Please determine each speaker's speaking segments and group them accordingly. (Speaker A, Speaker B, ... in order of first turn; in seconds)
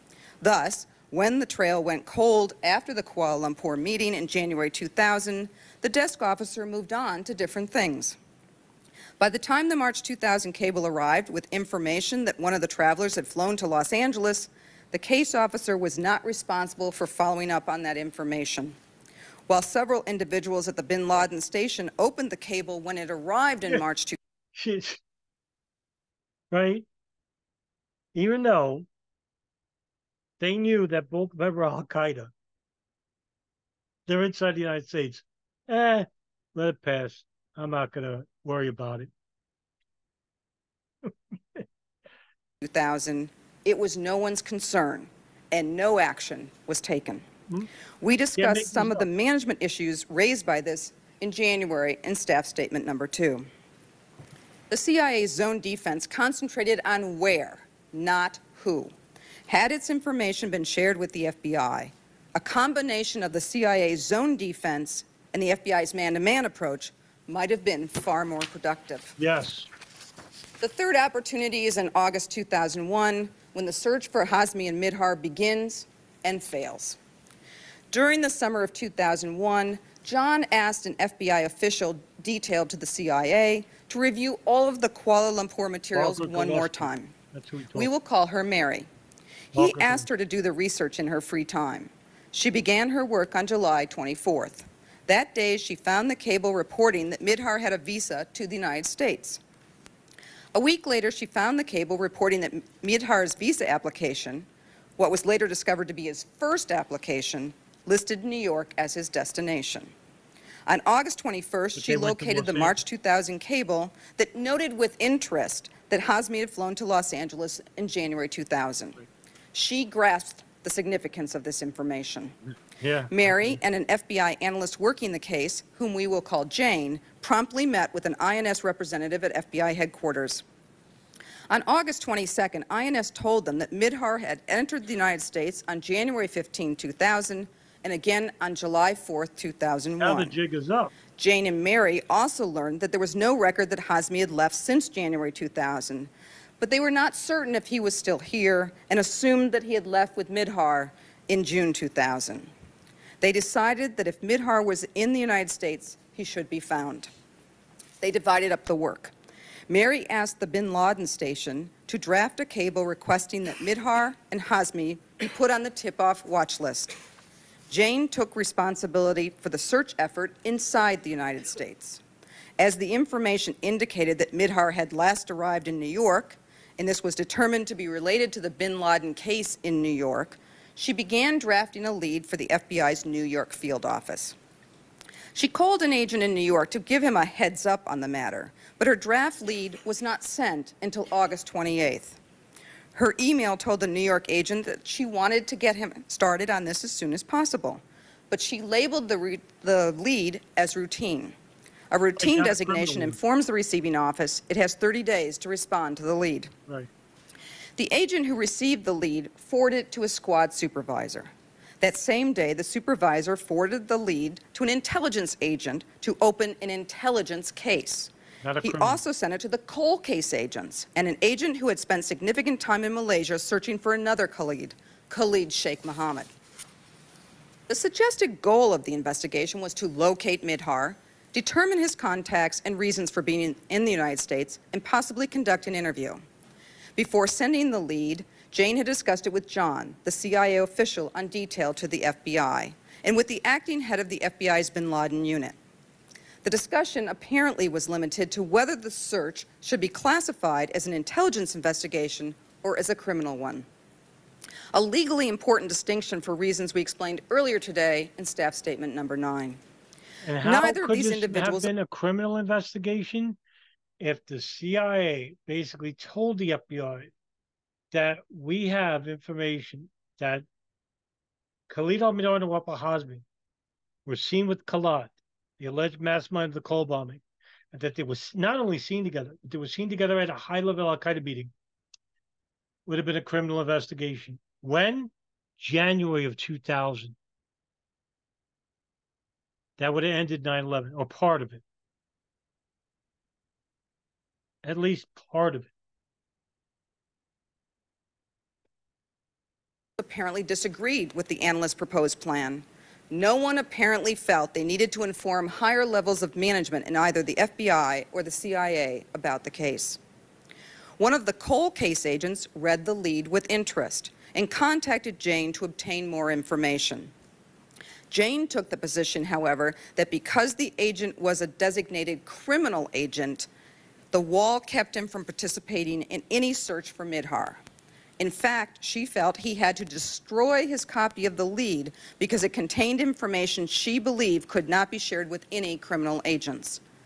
Speaker A: 0.4-8.2, 9.2-18.8, 19.5-24.2, 42.6-47.2, 48.0-53.5, 54.7-58.9, 59.5-69.1, 70.6-77.0, 77.9-87.1, 87.7-88.9, 89.5-99.4, 100.5-104.5, 105.0-109.9, 110.7-122.3, 123.1-130.4, 131.5-140.3, 141.2-152.5, 153.2-157.1, 158.0-159.1, 159.7-167.0, 167.7-172.0, 172.6-184.3, 185.3-192.2, 192.9-201.3, 201.9-206.5, 207.8-218.1, 218.6-226.3, 227.7-236.2, 237.0-245.6, 246.4-253.7, 254.7-259.6, 260.4-261.7, 300.0-310.0, 311.0-317.1, 318.1-323.5, 324.1-327.6, 328.2-336.8
Speaker B: 24.6-25.0, 26.5-26.9, 28.1-28.9, 30.4-32.3, 34.1-39.1, 41.1-41.6, 48.4-49.1, 69.2-69.7, 85.9-87.9, 89.5-90.1, 111.8-112.7, 122.8-123.6, 140.0-140.9, 202.2-203.2, 218.4-219.0, 260.2-263.4, 264.0-267.1, 267.9-270.5, 271.7-273.2, 274.1-281.5, 282.9-287.1, 289.8-291.6, 294.6-295.7